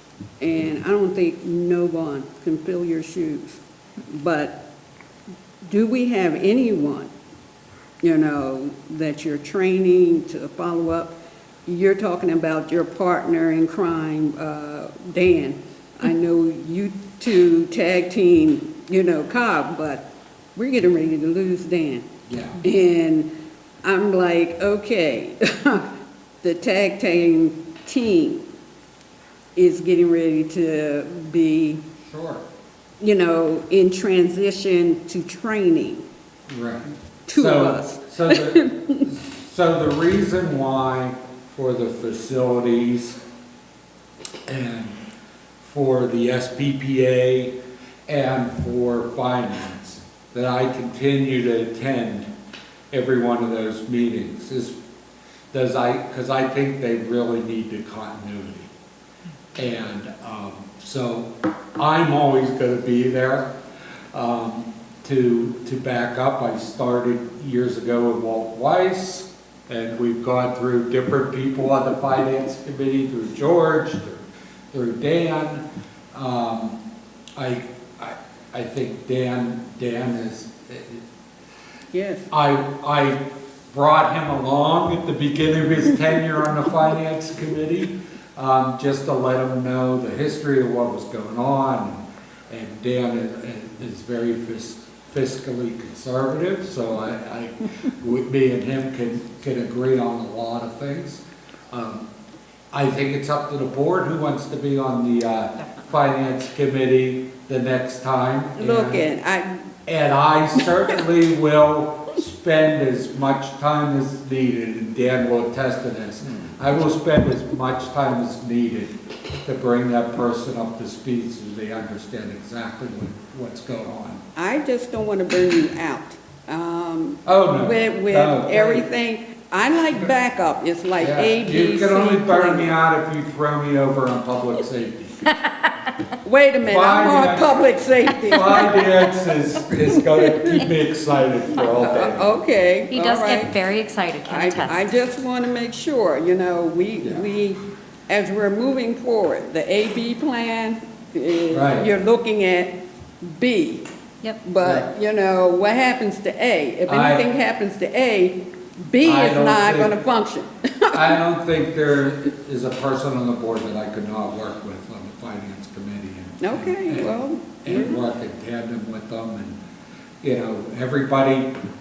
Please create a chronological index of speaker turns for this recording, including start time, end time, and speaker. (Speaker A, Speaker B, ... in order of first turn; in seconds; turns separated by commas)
Speaker A: 0.4-4.6, Speaker A: 5.7-7.1, Speaker A: 8.0-22.1, Speaker B: 22.3-22.6, Speaker A: 22.6-23.3, Speaker A: 23.8-25.9, Speaker A: 26.4-28.4, Speaker A: 29.6-31.8, Speaker B: 32.0-32.5, Speaker A: 33.0-36.0, Speaker B: 36.5-43.2, Speaker A: 37.3-39.0, Speaker B: 44.5-45.0, Speaker B: 45.6-47.5, Speaker B: 48.1-52.3, Speaker B: 52.9-54.7, Speaker B: 55.5-58.7, Speaker B: 59.5-63.5, Speaker B: 64.1-76.8, Speaker B: 77.3-81.0, Speaker A: 81.9-82.3, Speaker B: 82.3-102.1, Speaker B: 102.7-109.0, Speaker A: 108.6-109.6, Speaker B: 109.9-124.2, Speaker A: 124.3-132.7, Speaker B: 127.2-128.8, Speaker B: 131.0-135.2, Speaker A: 136.2-138.9, Speaker B: 136.6-137.6, Speaker B: 138.2-142.4, Speaker A: 140.2-140.6, Speaker A: 141.8-143.5, Speaker C: 142.9-144.9, Speaker A: 144.2-153.8, Speaker B: 151.5-151.9, Speaker A: 154.4-161.1, Speaker B: 154.6-154.9, Speaker B: 156.9-157.3, Speaker B: 159.0-159.9, Speaker B: 160.9-169.6, Speaker A: 166.4-168.0, Speaker B: 170.2-171.5